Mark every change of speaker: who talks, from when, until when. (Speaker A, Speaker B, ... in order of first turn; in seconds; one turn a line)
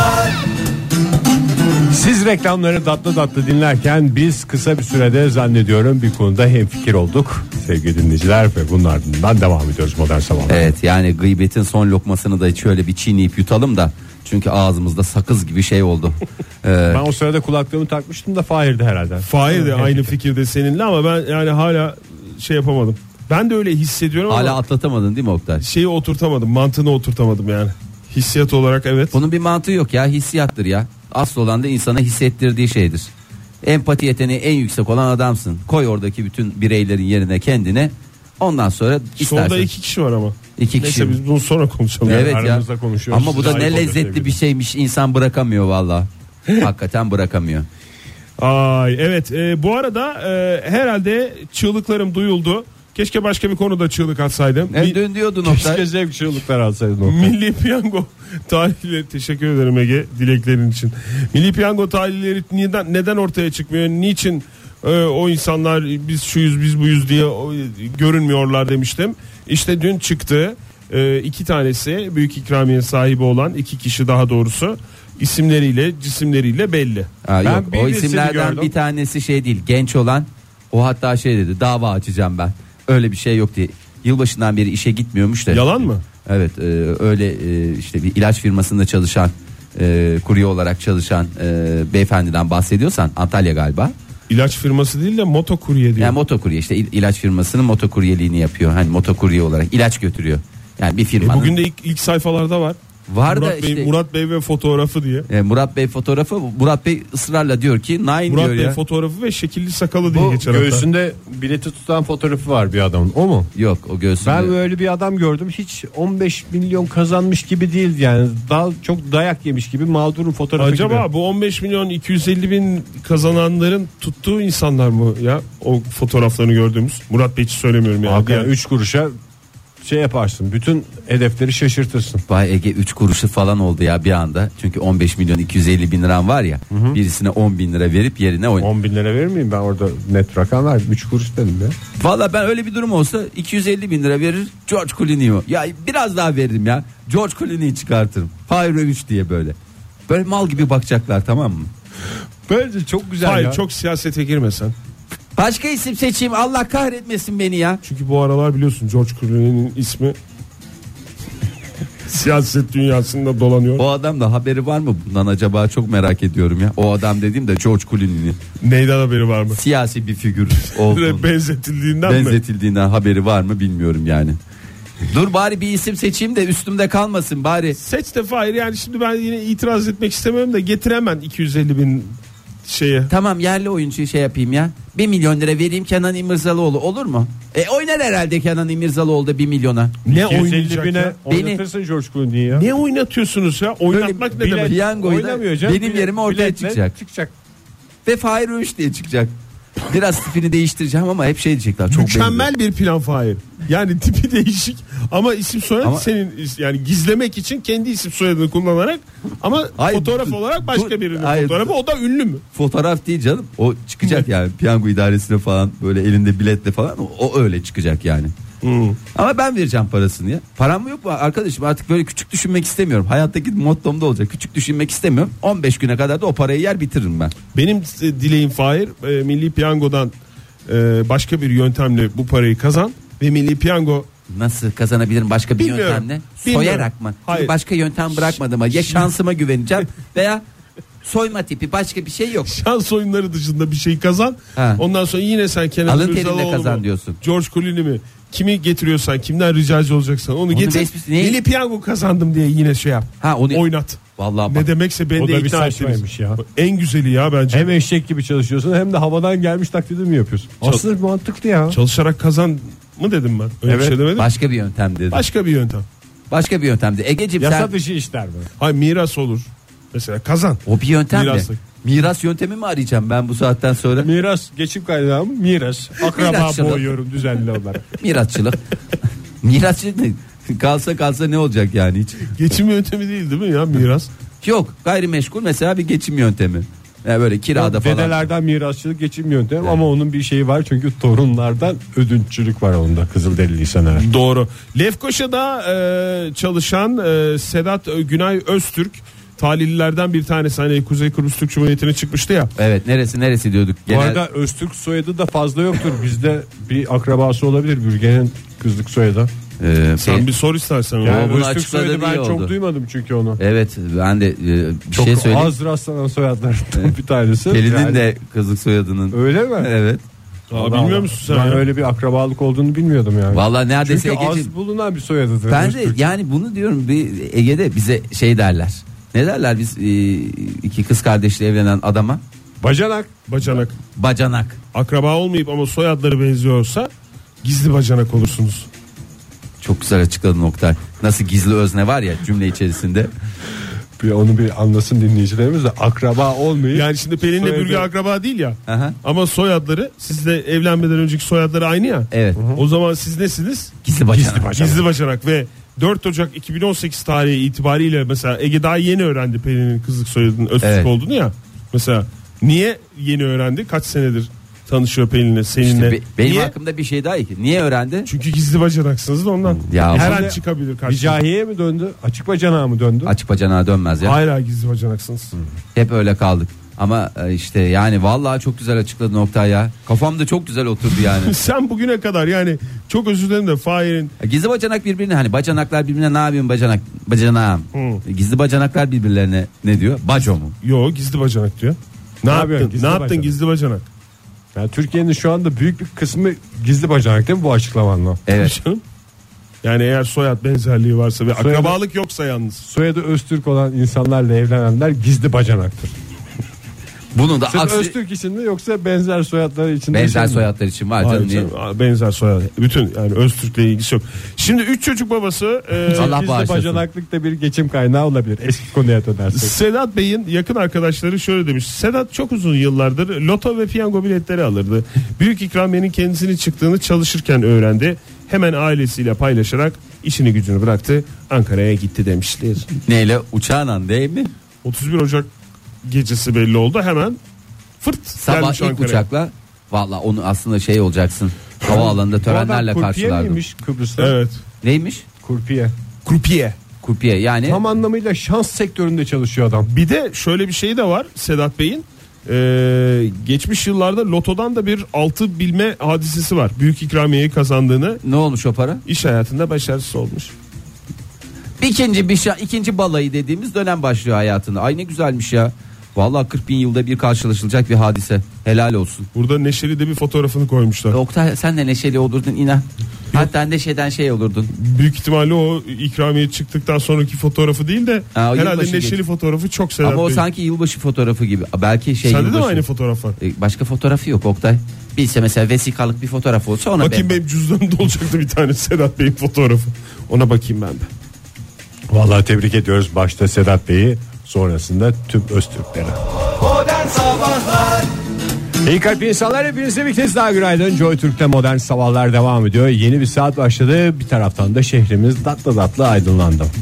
Speaker A: 1.9-10.8
Speaker B: 10.5-17.0
Speaker A: 16.9-20.1
Speaker C: 19.2-24.6
Speaker B: 24.3-25.6
Speaker C: 25.6-29.1
Speaker B: 29.1-33.1
Speaker B: 33.6-39.7
Speaker C: 39.2-42.3
Speaker B: 40.6-41.2
Speaker A: 42.0-44.4
Speaker B: 42.1-47.7
Speaker C: 48.4-55.0
Speaker B: 54.7-55.8
Speaker A: 55.4-57.4
Speaker C: 57.0-77.1
Speaker B: 77.2-94.0
Speaker A: 77.4-78.7
Speaker C: 85.5-86.0
Speaker C: 94.3-96.2
Speaker B: 96.0-101.6
Speaker C: 101.2-105.3
Speaker B: 103.1-103.9
Speaker B: 105.3-108.8
Speaker C: 108.3-110.9
Speaker A: 110.1-113.5
Speaker B: 113.5-114.5
Speaker A: 114.2-121.1
Speaker C: 120.6-128.5
Speaker A: 128.1-129.1
Speaker A: 129.8-132.2
Speaker B: 132.3-138.7
Speaker A: 136.7-137.0
Speaker A: 138.6-141.8
Speaker B: 142.0-149.6
Speaker B: 150.1-151.7
Speaker A: 152.5-153.6
Speaker C: 153.2-154.7
Speaker B: 155.4-157.8
Speaker C: 157.8-160.2
Speaker C: 162.1-163.8
Speaker B: 163.8-168.4
Speaker C: 168.6-169.6
Speaker B: 169.5-171.3
Speaker C: 170.6-172.4
Speaker B: 172.1-174.4
Speaker B: 175.1-177.8
Speaker C: 177.8-183.1
Speaker B: 183.1-189.9
Speaker C: 190.1-191.2
Speaker A: 190.1-192.7
Speaker B: 191.3-191.6
Speaker C: 192.5-194.8
Speaker B: 193.9-196.9
Speaker A: 194.3-197.3
Speaker B: 198.1-199.3
Speaker B: 199.9-202.5
Speaker C: 201.9-212.4
Speaker B: 209.8-211.7
Speaker B: 212.5-218.3
Speaker C: 218.6-219.0
Speaker B: 219.1-227.3
Speaker C: 227.5-230.1
Speaker C: 230.7-234.1
Speaker B: 234.3-240.4
Speaker C: 235.6-237.5
Speaker C: 238.2-239.1
Speaker B: 241.0-242.6
Speaker C: 242.5-257.7
Speaker B: 244.6-244.8
Speaker B: 245.9-247.2
Speaker B: 250.5-251.4
Speaker B: 253.2-253.7
Speaker B: 254.2-254.7
Speaker A: 255.2-256.4
Speaker A: 257.5-261.8
Speaker C: 261.7-264.3
Speaker A: 263.6-264.0
Speaker B: 264.1-265.2
Speaker C: 265.1-265.9
Speaker B: 266.3-267.7
Speaker A: 267.4-268.5
Speaker C: 268.6-271.6
Speaker B: 270.7-274.1
Speaker A: 274.0-277.8
Speaker B: 276.0-276.9
Speaker B: 278.0-278.7
Speaker B: 279.4-282.3
Speaker C: 282.4-284.1
Speaker B: 284.4-288.3
Speaker A: 287.6-294.1
Speaker C: 294.0-302.5
Speaker B: 302.6-304.2
Speaker A: 303.9-309.3
Speaker B: 309.6-310.3
Speaker C: 310.0-311.3
Speaker A: 311.0-313.4
Speaker B: 311.0-312.5
Speaker B: 313.4-315.5
Speaker A: 314.9-318.0
Speaker B: 317.5-320.0
Speaker A: 319.1-319.7
Speaker A: 320.5-326.0
Speaker C: 320.5-321.7
Speaker B: 323.3-324.5
Speaker B: 325.5-332.2
Speaker A: 332.6-333.1
Speaker C: 333.3-333.7
Speaker B: 333.9-334.6
Speaker C: 334.7-336.9
Speaker C: 337.4-338.7
Speaker B: 339.6-343.1
Speaker A: 344.0-347.9
Speaker C: 346.7-353.8
Speaker B: 348.7-349.0
Speaker B: 352.1-352.4
Speaker A: 352.4-352.6
Speaker B: 353.8-354.5
Speaker A: 354.1-354.9
Speaker C: 354.6-366.5
Speaker B: 360.6-360.9
Speaker B: 365.6-368.1
Speaker C: 368.1-371.2
Speaker B: 369.6-370.3
Speaker A: 369.9-373.1
Speaker B: 373.1-374.2
Speaker C: 374.0-375.4
Speaker B: 375.8-381.4
Speaker C: 381.0-384.1
Speaker B: 384.2-390.5
Speaker C: 387.7-388.0
Speaker C: 390.6-393.9
Speaker A: 392.3-393.4
Speaker A: 394.6-398.2
Speaker B: 398.3-398.6
Speaker C: 398.4-398.8
Speaker C: 399.6-402.6
Speaker A: 401.4-401.8
Speaker A: 402.6-405.9
Speaker B: 407.1-407.9
Speaker A: 407.5-410.5
Speaker B: 409.9-411.5
Speaker C: 411.0-416.1
Speaker A: 415.9-419.5
Speaker B: 415.9-416.8
Speaker C: 419.3-432.7
Speaker B: 432.9-434.3
Speaker C: 434.6-435.3
Speaker C: 435.9-437.2
Speaker C: 437.8-439.1
Speaker B: 438.2-443.4
Speaker A: 441.6-444.2
Speaker C: 444.0-444.4
Speaker B: 444.6-445.0
Speaker A: 445.2-445.7
Speaker C: 446.1-446.6
Speaker B: 446.8-447.6
Speaker A: 447.4-449.7
Speaker C: 449.7-458.0
Speaker B: 458.0-458.8
Speaker C: 458.9-460.3
Speaker B: 461.6-469.1
Speaker C: 469.1-471.0
Speaker B: 470.9-474.5
Speaker C: 474.5-480.2
Speaker B: 478.1-479.0
Speaker B: 479.8-482.6
Speaker C: 482.0-483.2
Speaker B: 483.2-487.1
Speaker C: 486.8-490.9
Speaker A: 491.9-496.0
Speaker B: 496.8-497.4
Speaker A: 498.6-506.5